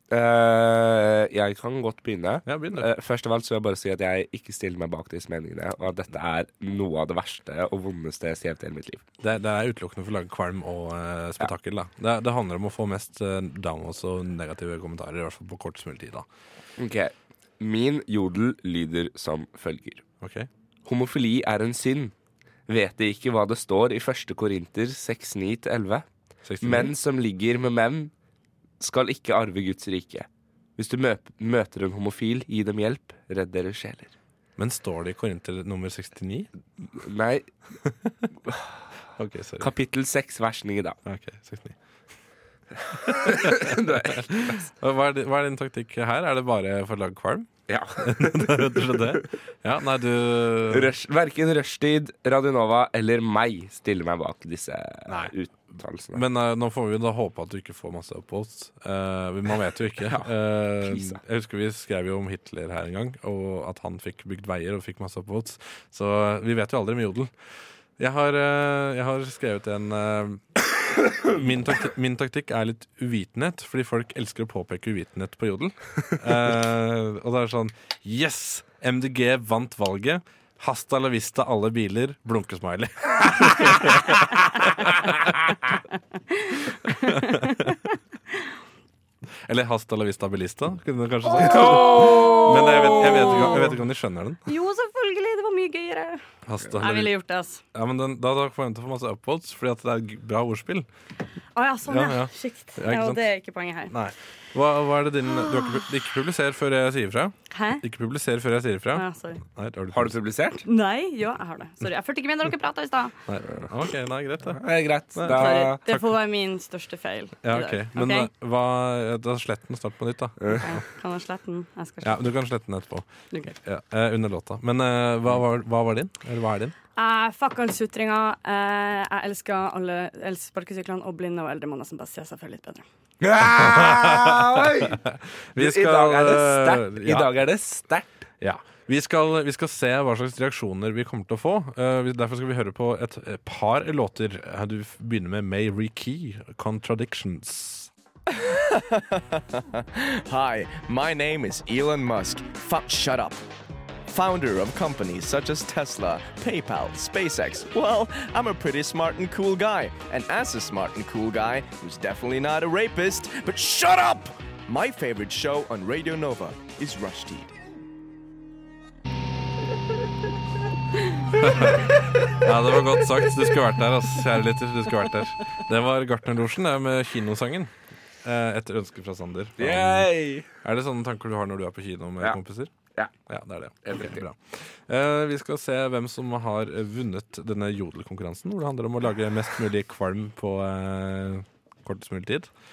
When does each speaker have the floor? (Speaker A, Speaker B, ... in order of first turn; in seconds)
Speaker A: 0.1-9.0, 16.8-20.0, 20.9-22.1, 22.7-26.1, 26.6-28.1, 28.8-34.1, 37.0-37.5, 38.5-38.7, 39.6-41.0, 42.9-44.6, 47.7-49.2, 50.7-56.2, 60.0-60.3, 60.8-61.2, 91.4-93.6, 109.9-110.6, 114.5-115.8, 120.4-120.7, 133.2-135.0, 135.6-138.1, 179.6-180.5, 183.8-184.2
Speaker B: 2.5-2.9, 9.2-16.2, 20.2-20.5, 26.4-26.9, 34.6-36.5, 39.1-39.7, 41.0-41.8, 43.1-50.9, 55.1-55.3, 56.1-67.3, 68.0-70.4, 71.3-85.2, 86.9-87.7, 89.5-94.4, 96.5-97.1, 97.7-100.9, 101.9-103.2, 103.9-110.2, 113.3-114.6, 115.1-116.0, 117.4-120.8, 122.0-123.1, 123.6-126.7, 133.4-137.3, 138.4-147.9, 171.4-177.7, 178.2-182.7, 183.3-192.5
Speaker C: 86.3-88.0, 91.3-93.7, 94.5-96.2, 96.8-97.6, 101.5-103.9, 105.3-105.9, 107.5-107.8, 108.9-109.4, 110.6-113.1, 115.2-118.3, 120.6-122.2, 127.0-132.8
Speaker D: 148.3-153.4, 154.1-167.5